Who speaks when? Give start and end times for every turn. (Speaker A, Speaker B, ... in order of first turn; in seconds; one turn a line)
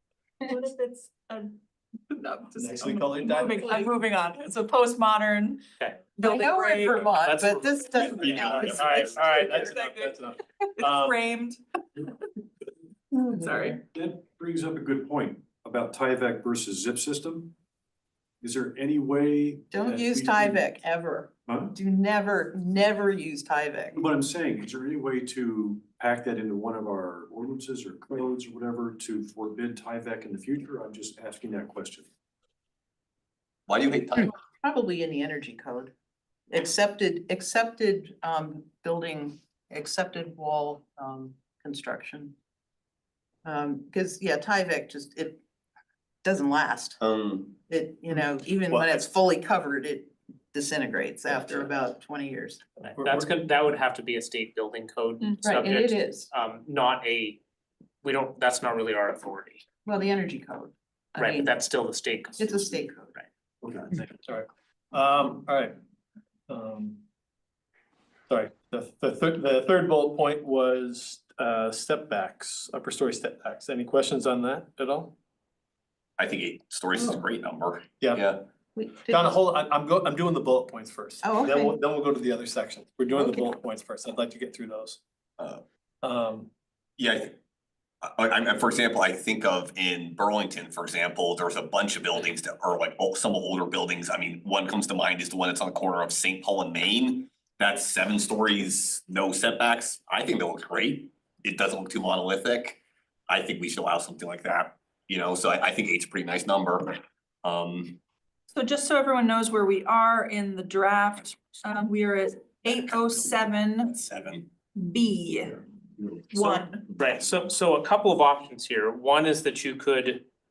Speaker A: 0.4-1.6
Speaker A: 2.1-5.6
Speaker B: 2.6-3.8
Speaker C: 5.8-6.1
Speaker A: 6.2-7.2
Speaker D: 6.2-9.4
Speaker C: 7.1-9.5
Speaker B: 8.0-11.2
Speaker A: 9.4-11.6
Speaker A: 13.1-13.8
Speaker E: 13.9-17.6
Speaker E: 18.4-20.7
Speaker D: 19.7-24.0
Speaker E: 21.5-21.7
Speaker E: 23.9-32.1
Speaker F: 33.7-34.3
Speaker D: 34.6-35.9
Speaker D: 36.5-42.3
Speaker D: 43.5-45.4
Speaker D: 46.2-47.0
Speaker F: 47.0-47.6
Speaker D: 47.6-52.6
Speaker B: 48.7-49.1
Speaker B: 52.8-53.3
Speaker C: 52.8-57.4
Speaker D: 55.4-56.3
Speaker C: 58.0-59.6
Speaker D: 59.9-61.5
Speaker C: 61.2-63.3
Speaker D: 62.4-63.1
Speaker B: 63.6-65.8
Speaker B: 66.5-67.0
Speaker B: 68.3-75.2
Speaker F: 76.2-78.4
Speaker B: 78.0-78.3
Speaker D: 78.8-79.3
Speaker B: 79.1-85.0
Speaker D: 81.2-81.8
Speaker D: 83.2-83.4
Speaker B: 86.0-86.5
Speaker F: 87.0-87.4
Speaker F: 88.0-108.0
Speaker A: 108.5-114.0
Speaker F: 113.9-114.5
Speaker A: 114.8-115.6
Speaker A: 116.3-116.9
Speaker C: 116.9-120.3